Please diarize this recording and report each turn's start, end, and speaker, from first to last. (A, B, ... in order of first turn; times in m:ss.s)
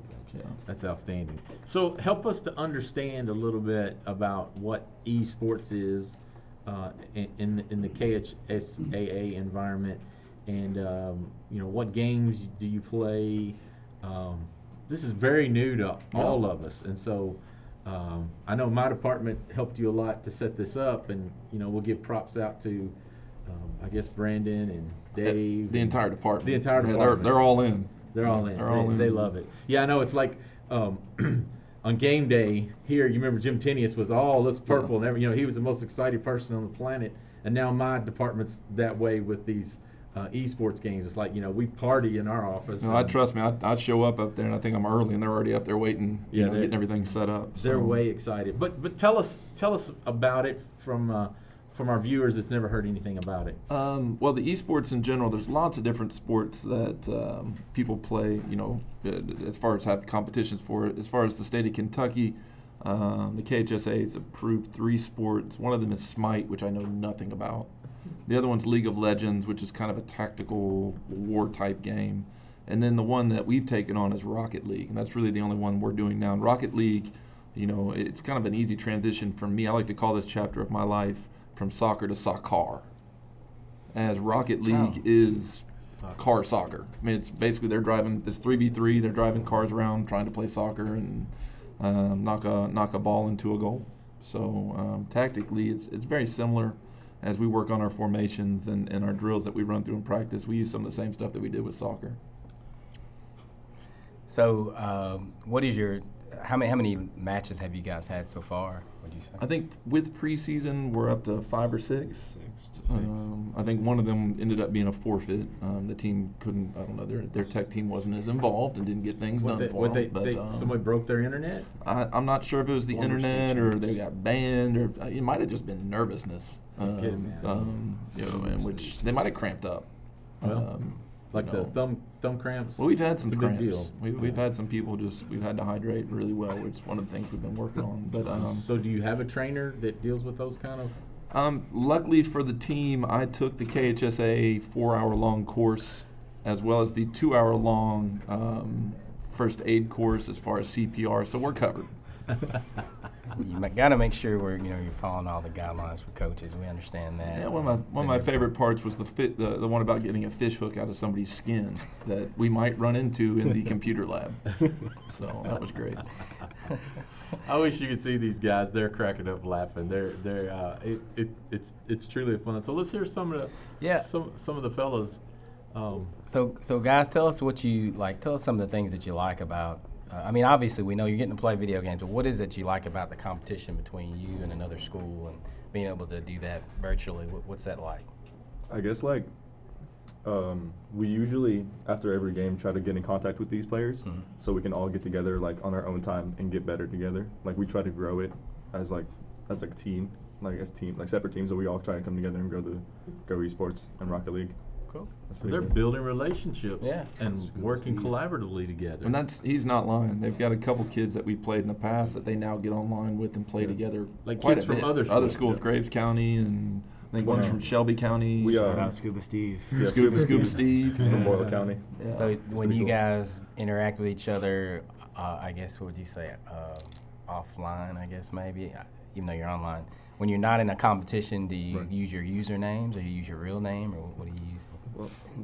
0:00.6-0:22.9 A
0:16.1-0:16.4 B
0:23.4-0:43.2 A
0:25.2-0:29.3 B
0:34.7-0:34.9 B
0:42.8-0:48.0 B
0:46.3-0:46.8 A
0:47.6-0:53.6 A
0:53.7-1:07.7 B
1:08.2-1:22.9 B
1:23.9-1:42.2 B
1:44.3-1:49.4 C
1:49.4-1:52.3 B
1:52.0-1:53.0 D
1:52.8-2:00.8 B
1:59.4-2:01.7 A
2:01.8-2:09.9 B
2:02.9-2:04.0 D
2:06.8-2:07.7 A
2:08.2-2:09.1 D
2:10.4-2:11.8 B
2:10.4-2:10.7 A
2:11.3-2:14.0 A
2:12.8-2:18.6 B
2:18.4-2:21.0 A
2:21.3-2:31.9 B
2:33.4-2:38.3 C
2:37.3-2:46.1 B
2:47.4-2:55.2 A
2:53.8-2:54.1 C
2:55.7-2:56.1 A
2:56.3-3:08.1 C
3:08.7-3:09.3 E
3:10.2-3:24.5 E
3:25.3-3:25.8 E
3:25.4-3:29.1 A
3:26.8-3:27.1 C
3:27.6-3:28.1 D
3:29.0-3:38.9 B
3:34.2-3:35.5 A
3:37.2-3:37.6 E
3:38.4-3:39.0 E
3:38.4-3:40.5 D
3:39.7-3:41.8 E
3:39.8-3:41.4 B
3:42.0-3:42.3 B
3:42.1-3:54.8 C
3:42.5-3:43.0 E